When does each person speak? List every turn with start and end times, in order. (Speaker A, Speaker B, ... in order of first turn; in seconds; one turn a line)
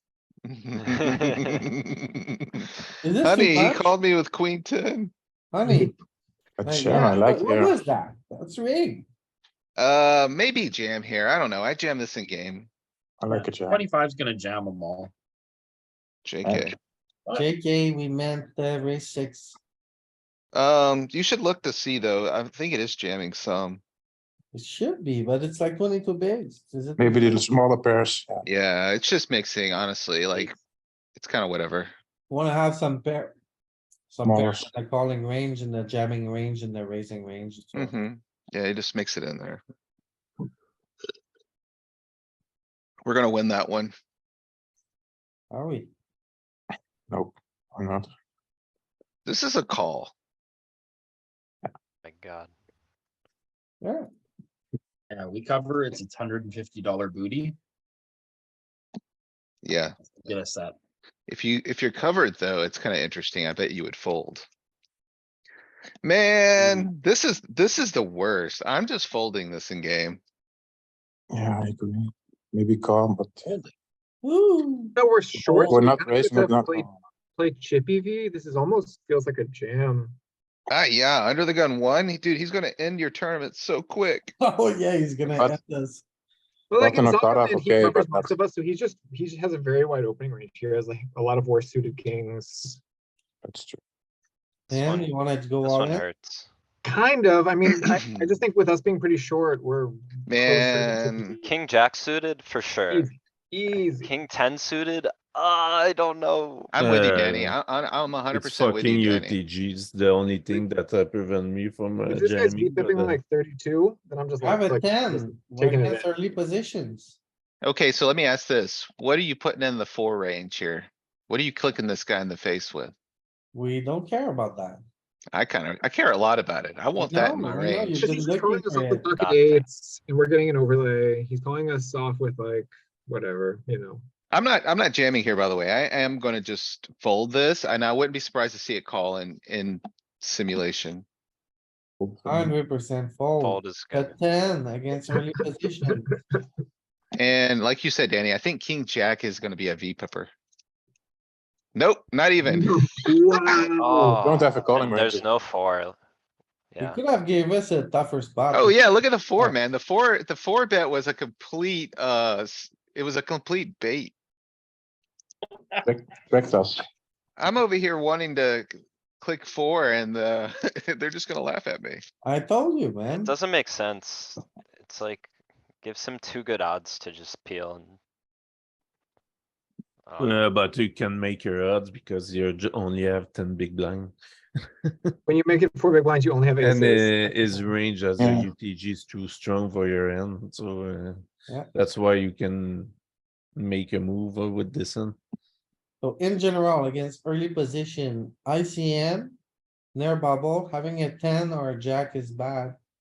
Speaker A: 0.5-2.2
Speaker B: 0.9-1.5
Speaker C: 3.0-3.9
Speaker A: 3.2-5.1
Speaker C: 5.5-5.9
Speaker D: 5.6-5.9
Speaker E: 6.6-7.8
Speaker C: 6.7-9.1
Speaker A: 9.8-12.7
Speaker E: 13.2-13.8
Speaker F: 13.3-15.1
Speaker A: 16.2-16.8
Speaker E: 16.4-16.8
Speaker C: 17.3-19.6
Speaker A: 20.5-23.8
Speaker C: 24.5-27.5
Speaker E: 27.0-28.4
Speaker A: 28.4-30.6
Speaker A: 31.2-31.9
Speaker C: 32.3-33.4
Speaker C: 34.1-38.0
Speaker E: 34.2-34.7
Speaker A: 37.8-39.6
Speaker A: 43.1-43.9
Speaker C: 45.5-45.9
Speaker E: 47.1-48.1
Speaker A: 49.3-50.1
Speaker B: 52.0-52.5
Speaker C: 53.8-54.1
Speaker F: 55.1-57.6
Speaker A: 59.6-60.0
Speaker F: 60.2-60.8
Speaker A: 61.3-64.5
Speaker A: 66.0-70.2
Speaker E: 71.3-73.6
Speaker C: 74.2-75.8
Speaker D: 75.0-76.9
Speaker E: 75.6-76.9
Speaker D: 77.4-80.2
Speaker A: 80.7-84.3
Speaker C: 84.4-86.0
Speaker D: 86.7-92.8
Speaker E: 86.8-88.3
Speaker E: 93.5-93.8
Speaker B: 94.7-96.5
Speaker C: 94.7-96.0
Speaker D: 96.8-101.5
Speaker A: 97.7-98.4
Speaker A: 100.3-101.3
Speaker B: 101.4-103.1
Speaker D: 102.9-104.1
Speaker B: 103.8-106.7
Speaker A: 106.7-109.4
Speaker G: 106.8-107.6
Speaker G: 108.3-113.2
Speaker D: 112.1-116.1
Speaker C: 114.4-117.2
Speaker A: 117.6-122.9
Speaker C: 123.5-124.8
Speaker A: 125.3-128.1
Speaker C: 127.0-129.1
Speaker D: 127.9-134.0
Speaker B: 129.1-129.7
Speaker A: 134.3-141.1
Speaker E: 142.0-142.5
Speaker C: 142.2-146.1
Speaker B: 143.4-144.2
Speaker A: 147.2-150.3
Speaker A: 151.8-152.7
Speaker D: 152.4-154.2
Speaker B: 153.8-156.0
Speaker E: 154.2-155.2
Speaker B: 156.7-157.0
Speaker C: 156.8-158.8
Speaker A: 158.5-164.1
Speaker E: 165.8-166.8
Speaker A: 167.4-168.7
Speaker A: 169.2-172.0
Speaker C: 172.2-173.3
Speaker B: 173.1-175.3
Speaker B: 175.8-178.0
Speaker B: 180.0-180.4
Speaker G: 180.2-184.1
Speaker G: 184.9-185.1
Speaker D: 185.3-187.6
Speaker G: 186.6-192.9
Speaker E: 188.2-188.5
Speaker G: 193.6-195.2
Speaker C: 196.0-199.4
Speaker C: 199.9-202.8